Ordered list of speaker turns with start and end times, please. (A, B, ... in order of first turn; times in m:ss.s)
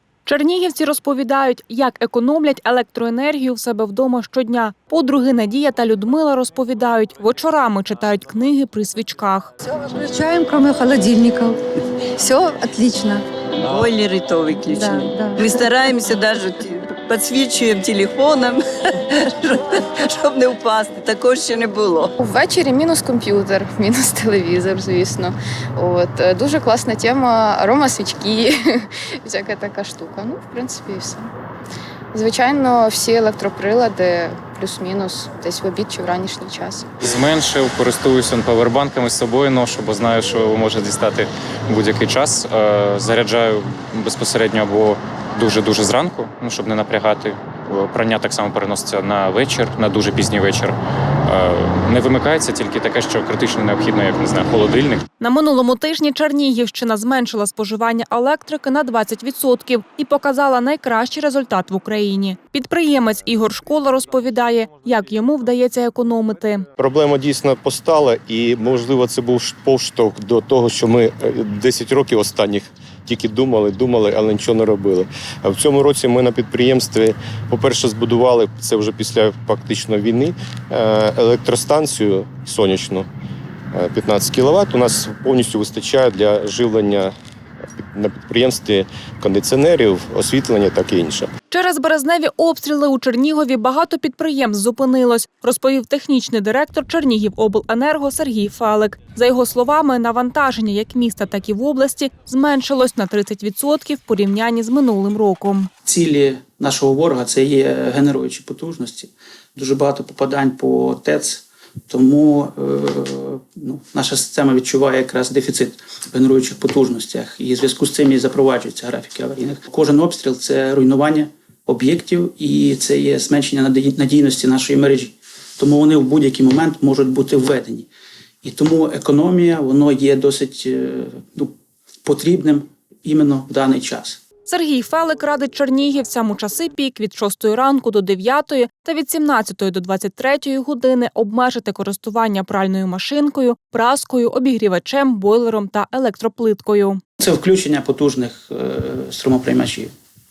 0:00.3-0:09.5 A
0:09.9-0:11.6 B
0:12.2-0:13.2 B
0:13.6-0:22.1 C
0:14.9-0:15.3 B
0:22.2-0:31.3 D
0:32.1-0:36.9 D
0:37.0-0:55.0 E
0:55.2-1:06.7 A
1:06.8-1:23.1 F
1:23.7-1:27.1 F
1:27.8-1:31.3 F
1:31.5-1:45.7 A
1:45.8-2:07.9 G
2:08.4-2:11.5 G
2:12.0-2:14.2 G
2:14.5-2:27.0 A
2:27.2-2:29.9 G